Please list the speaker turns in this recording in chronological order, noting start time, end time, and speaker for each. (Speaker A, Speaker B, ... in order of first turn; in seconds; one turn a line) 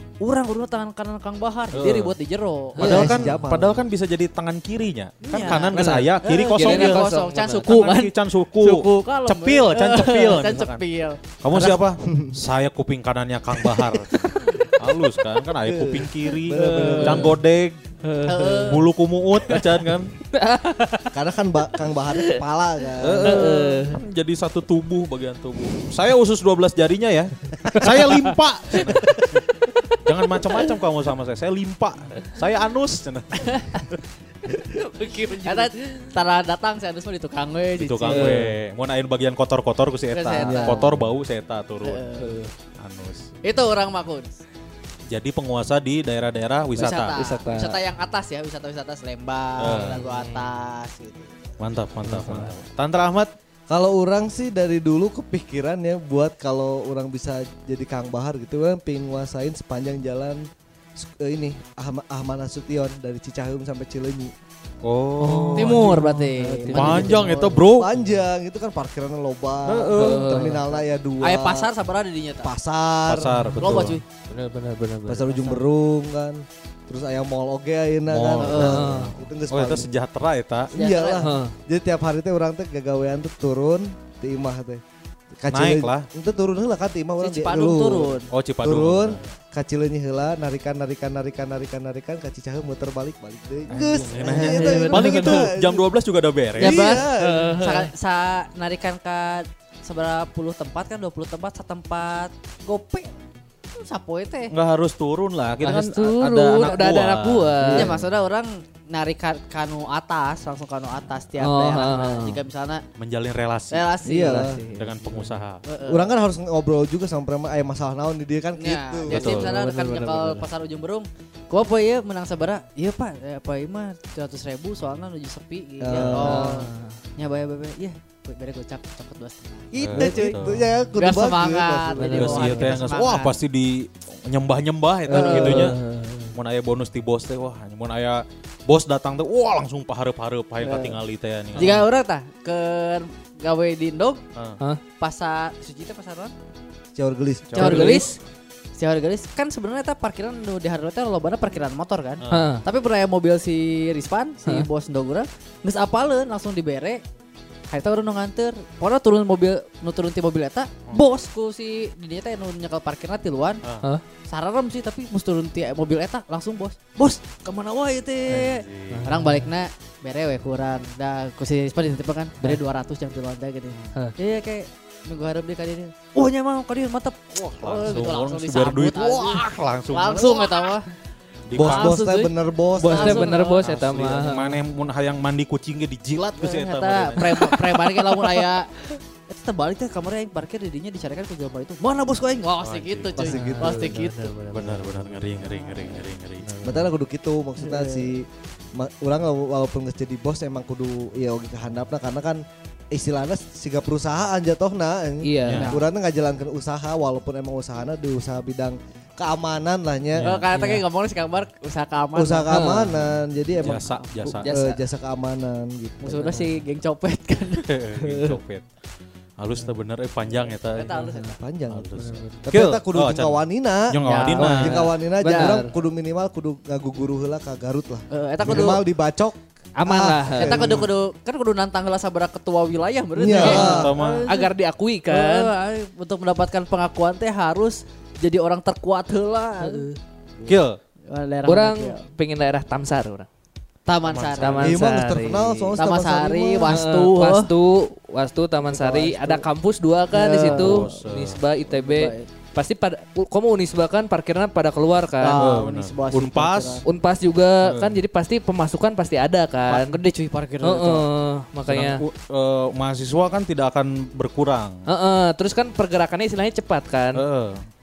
Speaker A: 0.2-3.1
Speaker B: 1.7-2.2
Speaker C: 2.8-3.2
Speaker B: 2.8-7.1
Speaker D: 2.8-3.9
Speaker A: 5.2-11.2
Speaker C: 5.3-7.7
Speaker B: 7.6-10.8
Speaker B: 11.4-17.8
Speaker D: 12.1-12.3
Speaker C: 14.4-14.7
Speaker D: 15.6-17.4
Speaker C: 16.5-17.4
Speaker C: 18.0-18.8
Speaker A: 18.2-18.9
Speaker B: 18.7-20.1
Speaker C: 20.3-21.2
Speaker D: 21.1-23.6
Speaker C: 22.1-22.4
Speaker B: 23.0-29.4
Speaker C: 23.2-24.0
Speaker C: 27.7-29.2
Speaker B: 30.1-33.9
Speaker A: 33.4-33.8
Speaker C: 34.6-36.1
Speaker A: 35.0-38.4
Speaker B: 37.8-42.0
Speaker C: 38.1-38.6
Speaker A: 40.1-40.9
Speaker C: 40.4-40.8
Speaker D: 40.5-40.9
Speaker A: 41.8-42.4
Speaker C: 42.2-42.5
Speaker B: 42.8-43.3
Speaker A: 43.4-44.4
Speaker B: 45.1-47.2
Speaker A: 46.8-51.4
Speaker C: 46.8-47.8
Speaker B: 49.6-50.0
Speaker C: 49.8-50.4
Speaker B: 51.6-53.3
Speaker C: 52.0-52.5
Speaker D: 53.7-60.5
Speaker D: 61.0-64.3
Speaker B: 64.8-66.0
Speaker C: 65.2-67.3
Speaker A: 65.6-67.6
Speaker B: 66.7-67.9
Speaker D: 67.8-71.7
Speaker B: 69.7-70.4
Speaker C: 69.9-70.8
Speaker A: 71.2-72.5
Speaker D: 72.4-73.8
Speaker B: 73.1-74.0
Speaker C: 73.4-75.5
Speaker A: 73.6-74.0
Speaker D: 75.1-79.9
Speaker A: 75.3-75.6
Speaker B: 78.1-80.7
Speaker A: 78.4-78.9
Speaker C: 78.5-79.1
Speaker D: 80.7-84.8
Speaker A: 80.7-81.3
Speaker C: 81.2-81.5
Speaker D: 85.3-95.9
Speaker B: 85.5-86.1
Speaker A: 87.2-88.3
Speaker B: 88.3-89.3
Speaker B: 93.7-96.8
Speaker C: 94.2-95.5
Speaker D: 96.6-97.6
Speaker A: 96.6-103.1
Speaker C: 97.1-97.9
Speaker A: 103.8-104.5
Speaker B: 104.5-107.6
Speaker C: 105.6-108.0
Speaker D: 107.6-108.0
Speaker A: 107.7-112.8
Speaker C: 111.4-112.4
Speaker B: 113.0-113.9
Speaker A: 113.7-114.5
Speaker D: 114.0-114.6
Speaker C: 114.1-115.4
Speaker B: 114.8-115.6
Speaker A: 115.6-116.1
Speaker D: 115.9-119.3
Speaker A: 118.6-130.4
Speaker B: 119.1-119.5
Speaker C: 119.1-120.5
Speaker D: 125.8-126.6
Speaker B: 125.9-126.3
Speaker C: 126.2-127.0
Speaker B: 129.8-130.6
Speaker D: 129.9-132.4
Speaker A: 131.0-133.3
Speaker C: 132.0-132.9
Speaker B: 132.1-135.8
Speaker C: 135.1-136.4
Speaker A: 135.1-135.7
Speaker D: 135.2-135.6
Speaker B: 136.3-141.8
Speaker A: 140.6-141.0
Speaker A: 141.6-144.2
Speaker B: 144.4-144.6
Speaker A: 145.0-146.3
Speaker D: 146.9-148.0
Speaker B: 147.5-148.0
Speaker A: 147.6-148.2
Speaker C: 147.6-148.2
Speaker A: 148.8-157.0
Speaker B: 152.2-152.6
Speaker C: 152.3-152.6
Speaker A: 157.7-163.6
Speaker A: 164.3-180.9
Speaker B: 168.3-169.1
Speaker C: 168.9-169.5
Speaker B: 173.7-174.0
Speaker B: 177.5-180.6
Speaker B: 181.5-182.0
Speaker D: 181.5-183.3
Speaker A: 181.6-183.6
Speaker C: 182.8-184.6
Speaker B: 183.6-187.6
Speaker A: 186.4-188.7
Speaker C: 187.2-188.4
Speaker A: 189.3-194.3
Speaker B: 192.6-193.2
Speaker D: 193.2-193.9
Speaker C: 193.2-195.7
Speaker B: 194.5-196.5
Speaker A: 195.6-195.9
Speaker C: 196.4-196.9
Speaker D: 196.6-210.3
Speaker A: 197.6-198.1
Speaker C: 205.2-205.7
Speaker A: 205.5-205.9
Speaker B: 210.1-210.4
Speaker A: 210.2-212.5
Speaker C: 210.5-210.8
Speaker D: 212.1-213.8
Speaker C: 212.5-213.0
Speaker B: 213.6-214.5
Speaker A: 213.7-214.8
Speaker D: 214.4-216.3
Speaker A: 216.0-217.8
Speaker C: 216.2-216.6
Speaker B: 217.7-218.6
Speaker B: 219.4-220.9
Speaker A: 220.6-221.4
Speaker C: 220.9-221.3
Speaker D: 221.1-230.9
Speaker B: 221.7-224.8
Speaker C: 222.0-222.5
Speaker A: 224.0-224.6
Speaker C: 224.4-225.7
Speaker A: 228.1-228.8
Speaker C: 229.8-230.8
Speaker A: 230.4-234.5
Speaker D: 233.1-234.0
Speaker C: 233.3-235.5
Speaker B: 233.3-234.3
Speaker A: 235.1-239.9
Speaker C: 239.6-239.9
Speaker B: 240.5-240.8
Speaker A: 241.1-242.0
Speaker C: 241.5-243.3
Speaker A: 243.9-244.7
Speaker B: 244.1-244.6
Speaker C: 244.4-245.8
Speaker D: 244.6-246.7
Speaker A: 245.8-247.5
Speaker C: 246.7-255.4
Speaker A: 248.6-249.5
Speaker A: 250.1-250.9
Speaker B: 250.4-251.4
Speaker A: 251.7-252.3
Speaker A: 255.2-256.8
Speaker B: 255.4-256.8
Speaker C: 256.8-260.0
Speaker B: 257.6-258.0
Speaker A: 259.7-261.1
Speaker C: 260.6-262.0
Speaker B: 261.7-264.8
Speaker C: 264.9-267.2
Speaker B: 267.1-267.7